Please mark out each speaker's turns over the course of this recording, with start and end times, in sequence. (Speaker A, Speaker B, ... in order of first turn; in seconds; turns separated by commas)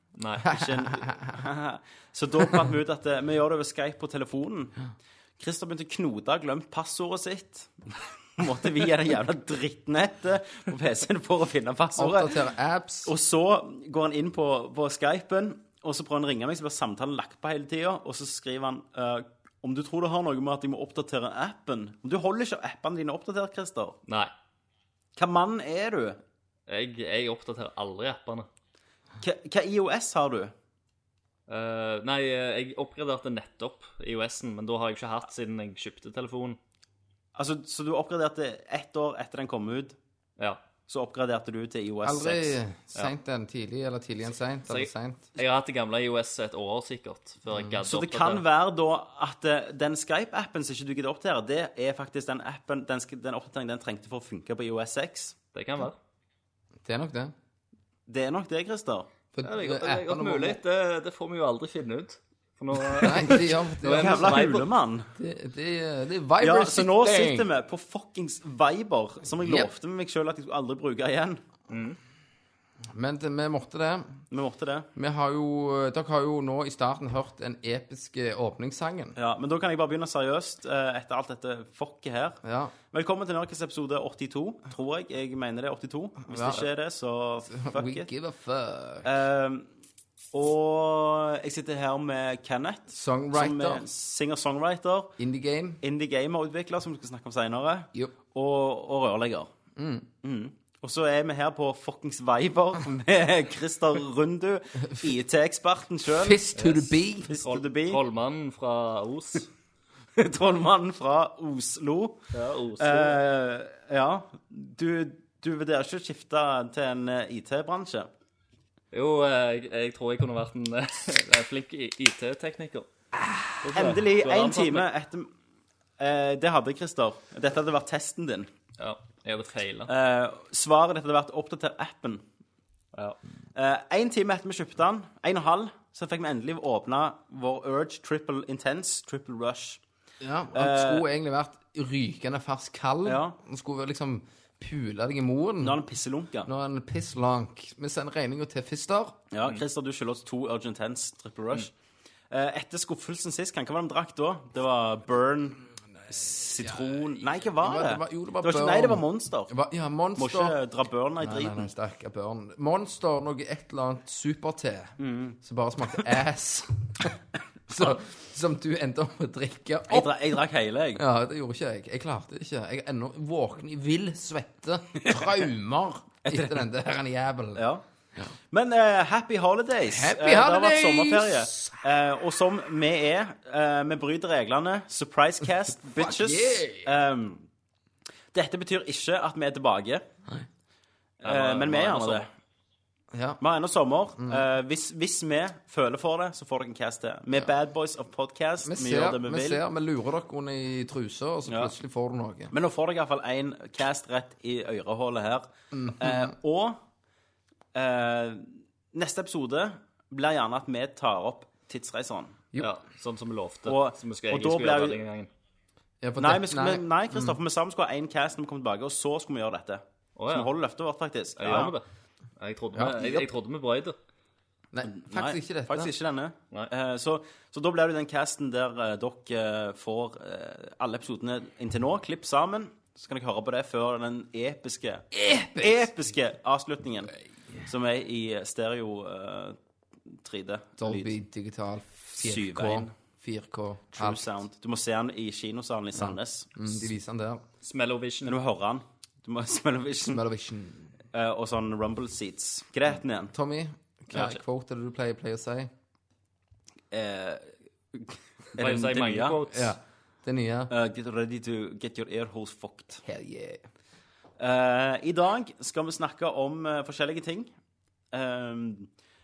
Speaker A: 0.2-0.5, Speaker B: 0.4-4.8, Speaker C: 0.4-1.4, Speaker B: 5.4-12.4, Speaker C: 12.0-13.1, Speaker B: 13.0-24.0, Speaker A: 24.1-24.3, Speaker B: 25.1-26.2, Speaker A: 26.7-28.5, Speaker B: 29.2-30.5, Speaker A: 31.5-36.6, Speaker B: 37.3-40.0, Speaker B: 40.9-42.6, Speaker C: 42.0-45.3, Speaker A: 44.7-48.4, Speaker C: 47.5-47.8, Speaker B: 47.8-55.4, Speaker A: 55.5-56.0, Speaker C: 56.8-57.3, Speaker B: 58.1-59.1, Speaker C: 59.3-60.6, Speaker A: 59.4-64.7, Speaker C: 63.0-64.4, Speaker B: 63.8-65.1, Speaker C: 65.2-67.5, Speaker B: 66.4-71.4, Speaker C: 69.4-69.7, Speaker A: 71.7-72.0, Speaker C: 72.9-74.2, Speaker B: 74.3-74.9, Speaker C: 75.0-79.2, Speaker B: 79.2-88.1, Speaker C: 82.4-82.7, Speaker C: 86.2-86.6, Speaker C: 87.5-89.0, Speaker B: 89.0-89.7, Speaker B: 90.3-95.1, Speaker C: 92.9-93.8, Speaker C: 95.2-95.8, Speaker B: 95.8-99.5, Speaker C: 99.8-100.1, Speaker B: 100.2-106.4, Speaker C: 106.1-107.3, Speaker A: 106.5-109.5, Speaker B: 107.2-108.0, Speaker B: 110.2-112.2, Speaker A: 112.3-113.2, Speaker B: 112.8-118.1, Speaker A: 118.9-122.9, Speaker A: 123.6-124.9, Speaker B: 123.6-125.3, Speaker B: 126.0-128.5, Speaker A: 128.8-129.9, Speaker B: 129.9-132.2, Speaker B: 133.5-139.8, Speaker C: 140.2-145.8, Speaker B: 140.5-141.0, Speaker B: 143.0-143.4, Speaker B: 145.6-146.5, Speaker C: 146.4-149.2, Speaker B: 149.3-151.7, Speaker B: 152.3-159.5, Speaker C: 156.6-157.0, Speaker C: 157.6-160.6, Speaker B: 160.2-161.7, Speaker C: 161.2-167.1, Speaker B: 165.0-165.4, Speaker C: 167.7-170.1, Speaker B: 169.9-171.0, Speaker C: 170.9-177.6, Speaker B: 175.0-175.3, Speaker B: 176.3-176.6, Speaker B: 177.6-177.8, Speaker B: 178.5-187.5, Speaker C: 179.9-181.8, Speaker C: 185.9-186.9, Speaker B: 188.3-190.1, Speaker B: 191.2-192.3, Speaker A: 191.2-192.2, Speaker C: 193.1-193.4, Speaker B: 193.4-199.6, Speaker C: 194.2-194.4, Speaker C: 198.6-202.5, Speaker B: 201.5-201.7, Speaker B: 202.5-206.8, Speaker C: 205.7-206.3, Speaker B: 207.7-212.4, Speaker A: 212.6-215.3, Speaker B: 213.7-215.0, Speaker C: 216.0-217.3, Speaker B: 216.2-221.7, Speaker A: 220.2-220.5, Speaker A: 221.4-221.8, Speaker A: 222.4-223.9, Speaker C: 222.7-223.2, Speaker C: 224.7-225.9, Speaker B: 224.8-237.1, Speaker C: 235.1-235.9, Speaker B: 237.7-239.6, Speaker B: 240.1-241.1, Speaker C: 240.8-244.3, Speaker B: 242.1-242.9, Speaker B: 243.9-246.7, Speaker C: 246.0-247.4, Speaker A: 247.6-248.3, Speaker B: 248.2-250.2, Speaker C: 250.1-250.9, Speaker B: 251.1-253.3, Speaker C: 253.3-255.7, Speaker A: 254.1-254.4, Speaker B: 256.9-259.4, Speaker A: 258.6-259.7, Speaker C: 259.5-260.7, Speaker B: 260.7-263.0, Speaker C: 263.0-263.6, Speaker B: 264.4-267.5, Speaker B: 268.1-268.9